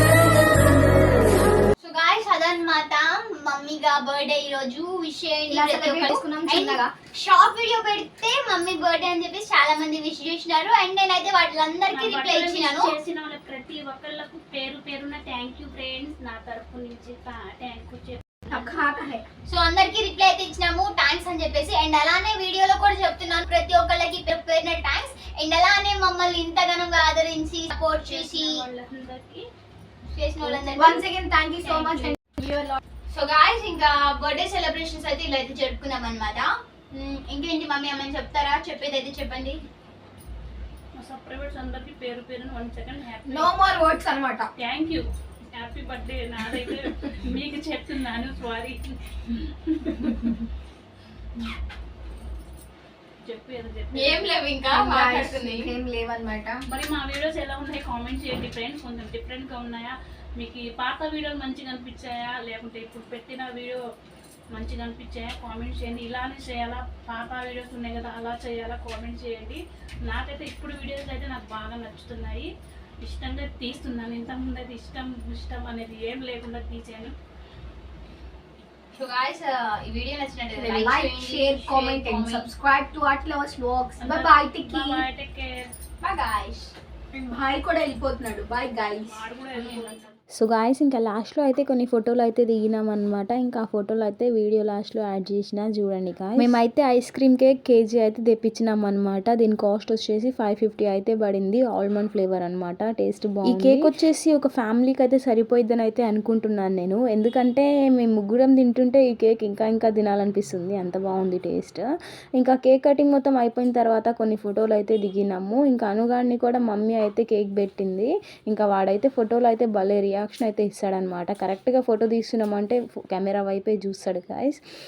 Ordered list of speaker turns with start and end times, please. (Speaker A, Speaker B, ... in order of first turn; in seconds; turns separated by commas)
Speaker A: 1.8-12.9, Speaker B: 5.5-6.9, Speaker C: 11.9-18.8, Speaker B: 18.5-19.2, Speaker A: 19.4-28.6, Speaker C: 28.0-29.4, Speaker A: 30.1-31.0, Speaker B: 30.4-32.8, Speaker C: 31.6-32.1, Speaker A: 33.1-39.6, Speaker C: 40.9-43.5, Speaker B: 43.3-44.5, Speaker C: 44.6-50.3, Speaker C: 53.2-54.3, Speaker A: 53.9-55.7, Speaker B: 54.7-56.6, Speaker C: 56.7-63.8, Speaker C: 64.5-72.5, Speaker C: 73.0-77.1, Speaker A: 79.0-82.5, Speaker B: 80.5-85.0, Speaker C: 84.0-85.6, Speaker A: 86.0-86.7, Speaker B: 87.2-89.2, Speaker C: 89.1-90.2, Speaker D: 90.3-111.8, Speaker D: 112.4-124.6